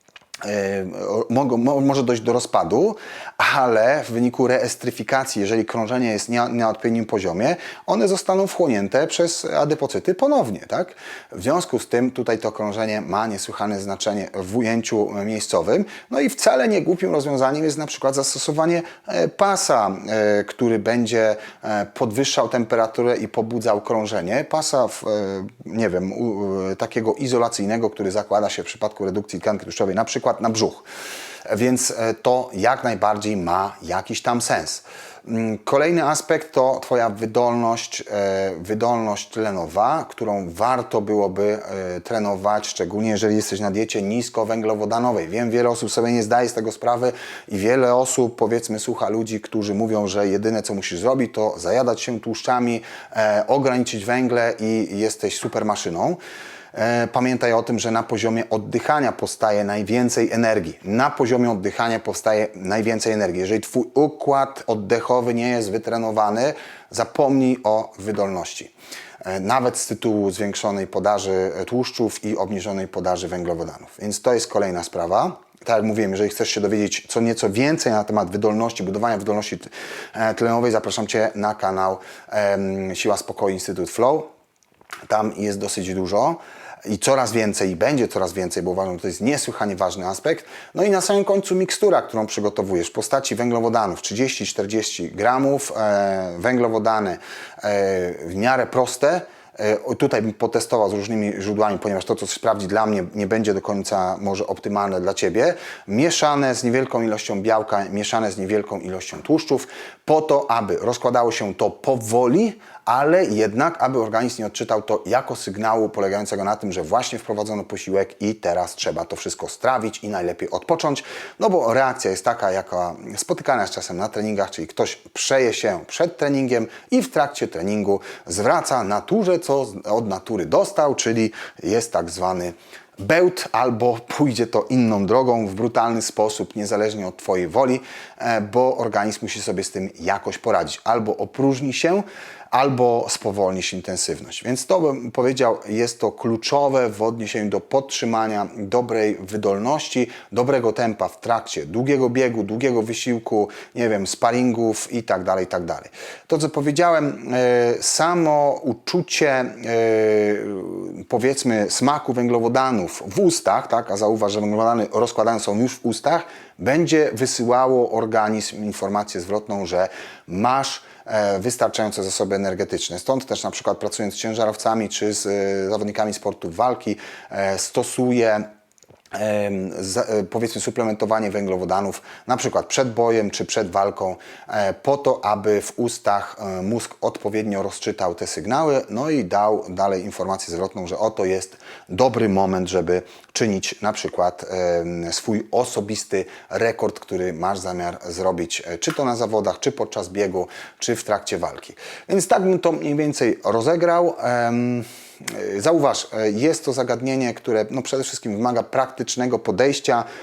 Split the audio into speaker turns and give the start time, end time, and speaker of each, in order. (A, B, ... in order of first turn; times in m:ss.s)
0:00.4-0:30.9 A
0:31.5-0:56.2 A
0:56.7-1:08.7 A
1:09.2-1:24.3 A
1:25.1-2:58.5 A
2:59.1-3:30.1 A